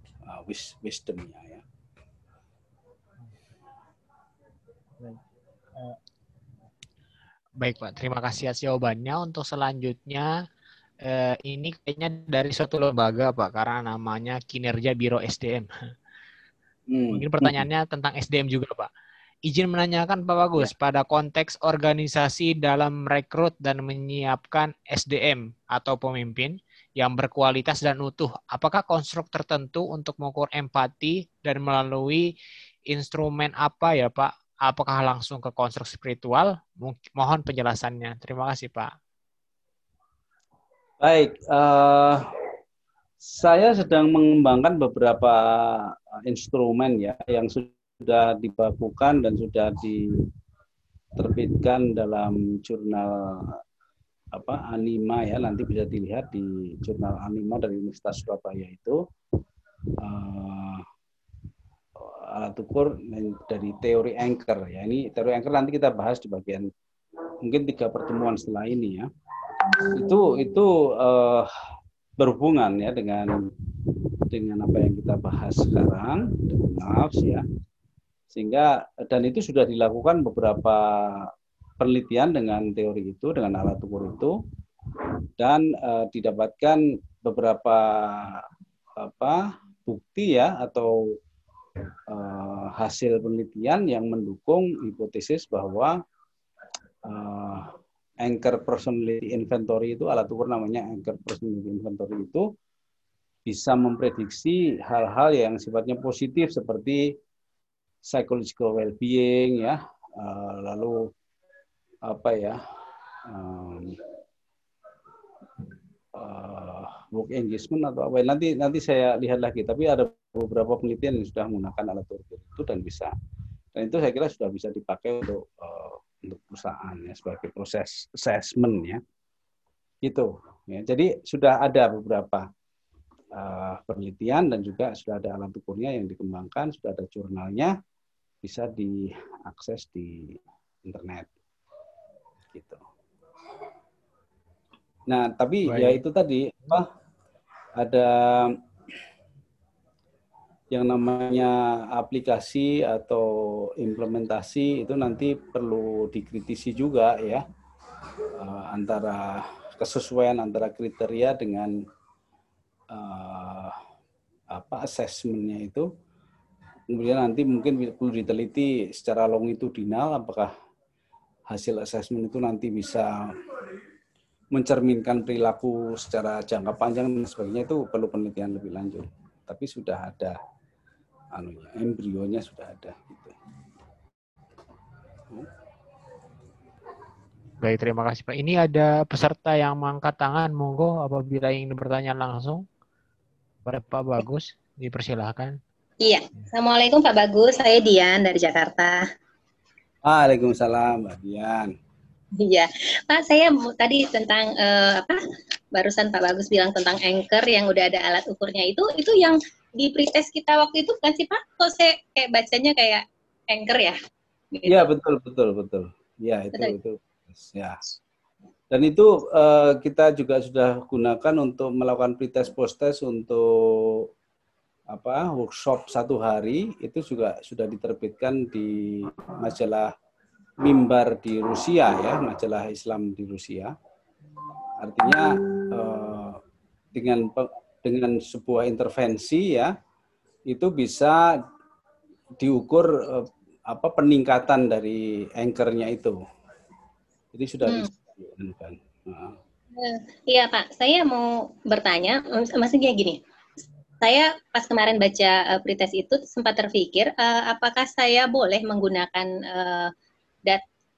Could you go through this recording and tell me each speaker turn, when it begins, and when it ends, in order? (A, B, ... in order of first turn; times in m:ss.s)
0:00.2-0:01.6 A
0:07.6-0:10.3 B
0:11.0-0:15.7 B
0:16.9-0:17.6 A
0:17.1-0:18.9 B
0:19.4-0:32.3 B
0:32.9-0:38.9 B
0:41.0-0:42.3 A
0:43.2-0:50.0 A
0:51.2-0:53.6 A
0:54.3-0:59.0 A
1:00.0-1:00.8 A
1:02.0-1:06.7 A
1:07.4-1:09.1 A
1:09.9-1:11.5 A
1:12.2-1:13.4 A
1:14.3-1:17.4 A
1:18.3-1:21.3 A
1:21.8-1:24.3 A
1:25.4-1:28.4 A
1:29.0-1:30.9 A
1:32.1-1:35.9 A
1:37.0-1:37.7 A
1:38.2-1:42.4 A
1:43.4-1:47.0 A
1:48.0-1:51.1 A
1:52.1-1:52.6 A
1:53.2-1:54.0 A
1:56.1-2:03.1 A
2:03.7-2:09.0 A
2:10.0-2:12.4 A
2:13.3-2:17.7 A
2:18.4-2:21.3 A
2:22.5-2:22.8 A
2:25.1-2:26.9 A
2:25.7-2:26.0 B
2:27.8-2:28.6 A
2:30.7-2:37.4 A
2:38.4-2:41.7 A
2:42.9-2:43.8 A
2:44.5-2:45.9 A
2:46.9-2:50.5 A
2:51.5-2:53.1 A
2:54.5-3:00.4 A
3:01.3-3:03.3 A
3:07.6-3:12.6 B
3:13.6-3:15.6 B
3:16.0-3:19.0 C
3:20.0-3:21.7 A
3:22.4-3:25.2 C
3:25.7-3:33.9 C
3:34.5-3:34.8 C
3:34.6-3:37.8 A
3:38.7-3:44.1 A
3:44.9-3:49.9 A
3:50.6-3:53.7 A
3:54.8-3:56.4 A
3:56.9-3:59.7 A
4:00.5-4:01.3 A
4:02.4-4:06.2 A
4:07.3-4:09.4 A
4:09.7-4:13.2 C
4:14.0-4:19.9 C